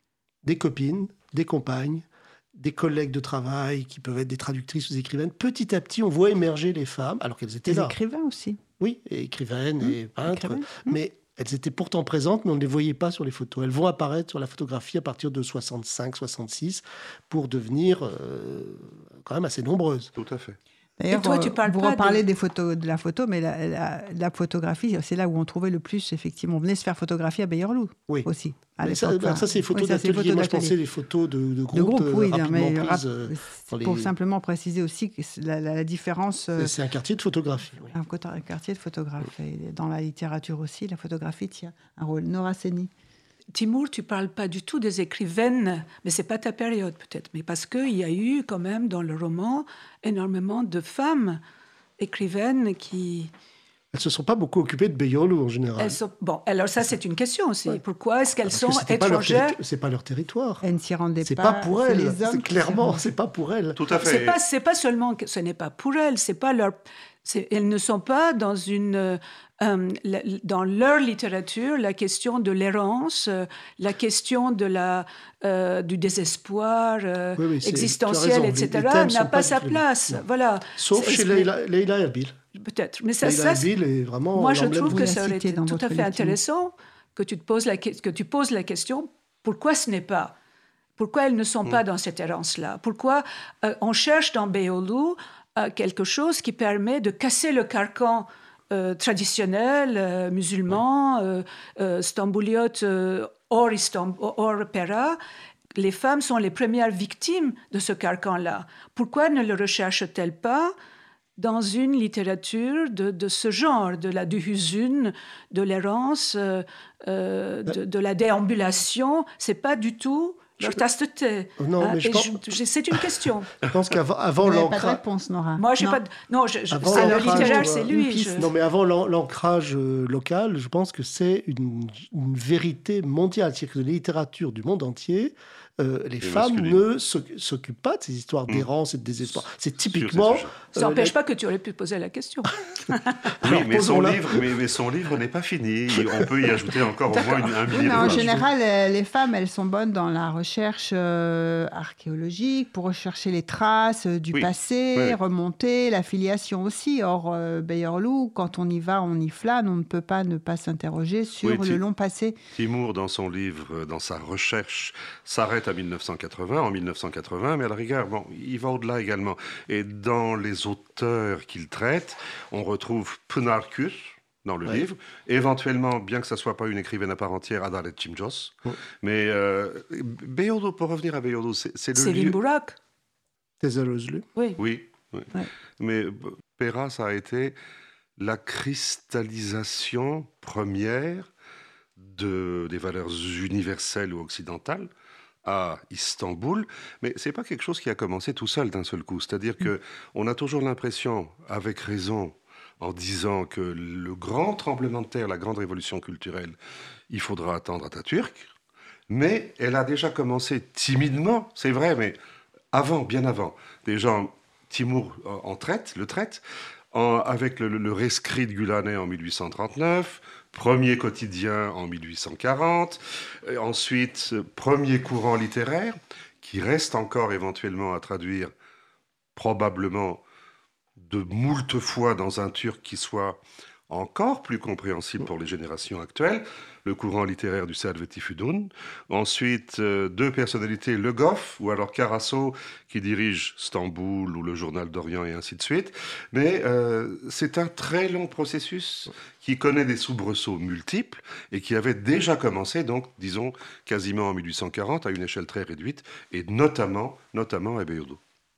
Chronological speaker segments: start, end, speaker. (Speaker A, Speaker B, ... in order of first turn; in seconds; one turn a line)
Speaker A: 0.4-8.0
Speaker B: 7.7-8.6
Speaker A: 8.8-20.1
Speaker B: 9.8-11.0
Speaker C: 20.1-20.6
Speaker B: 21.0-30.7
Speaker D: 21.1-22.2
Speaker A: 28.8-34.1
Speaker B: 31.7-36.7
Speaker A: 36.6-37.9
Speaker B: 37.9-42.9
Speaker D: 43.5-51.4
Speaker D: 52.0-53.3
Speaker A: 53.9-56.0
Speaker D: 55.8-59.6
Speaker A: 58.5-60.6
Speaker B: 60.6-63.0
Speaker A: 61.2-63.8
Speaker C: 63.8-64.3
Speaker D: 64.0-81.5
Speaker A: 77.4-80.2
Speaker A: 80.8-82.4
Speaker D: 82.5-83.7
Speaker A: 83.2-85.1
Speaker D: 84.3-90.3
Speaker B: 84.9-86.3
Speaker D: 91.0-105.2
Speaker D: 105.7-110.7
Speaker D: 111.4-123.5
Speaker A: 121.6-122.4
Speaker A: 123.6-125.0
Speaker B: 124.4-126.0
Speaker D: 125.6-128.5
Speaker A: 126.7-141.1
Speaker B: 126.9-128.2
Speaker C: 136.2-136.8
Speaker C: 139.3-140.5
Speaker D: 140.7-143.6
Speaker A: 143.4-144.4
Speaker C: 143.4-148.4
Speaker B: 147.7-162.4
Speaker A: 147.8-148.4
Speaker C: 154.3-155.2
Speaker C: 161.4-161.8
Speaker C: 162.6-182.4
Speaker D: 181.9-182.8
Speaker A: 183.6-184.2
Speaker C: 184.6-187.5
Speaker C: 188.2-191.3
Speaker C: 192.0-194.9
Speaker C: 195.4-206.6
Speaker C: 207.1-208.5
Speaker C: 209.1-212.2
Speaker C: 212.7-216.4
Speaker C: 216.9-228.5
Speaker C: 229.3-230.2
Speaker C: 231.0-258.2